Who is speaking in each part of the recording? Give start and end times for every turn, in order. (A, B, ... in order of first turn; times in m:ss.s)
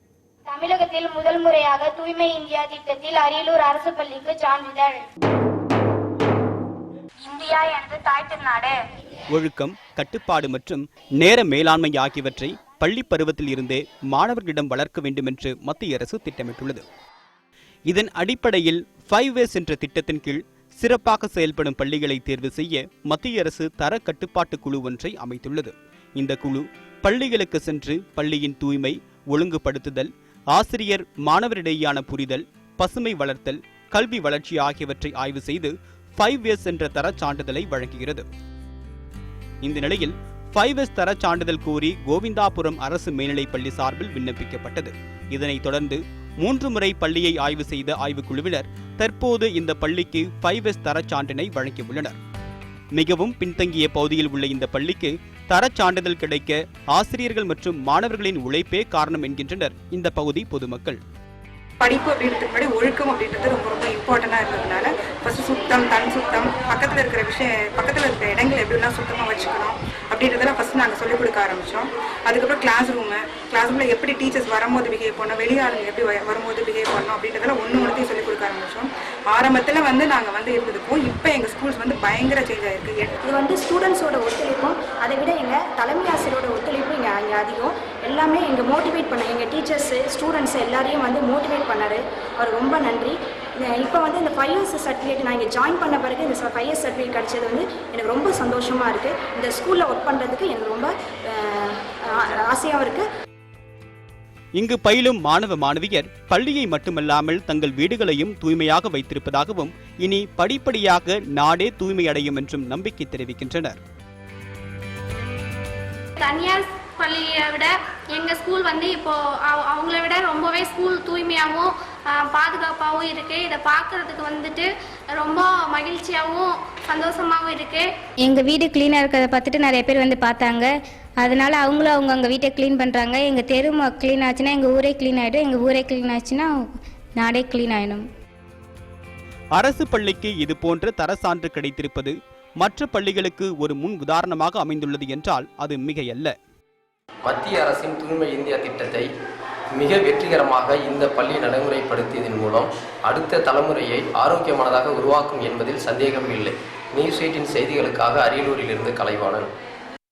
0:00.5-0:05.0 A
0:07.2-0:08.8 A
0:09.3-0:16.8 B
0:17.9-0:38.3 B
0:39.6-0:52.2 B
0:53.0-1:01.0 B
1:01.8-1:23.1 C
1:23.2-1:43.1 D
1:44.6-1:53.8 B
1:56.2-2:07.9 E
2:08.2-2:18.1 F
2:19.6-2:26.3 B
2:27.2-2:29.1 G
2:29.8-2:39.5 G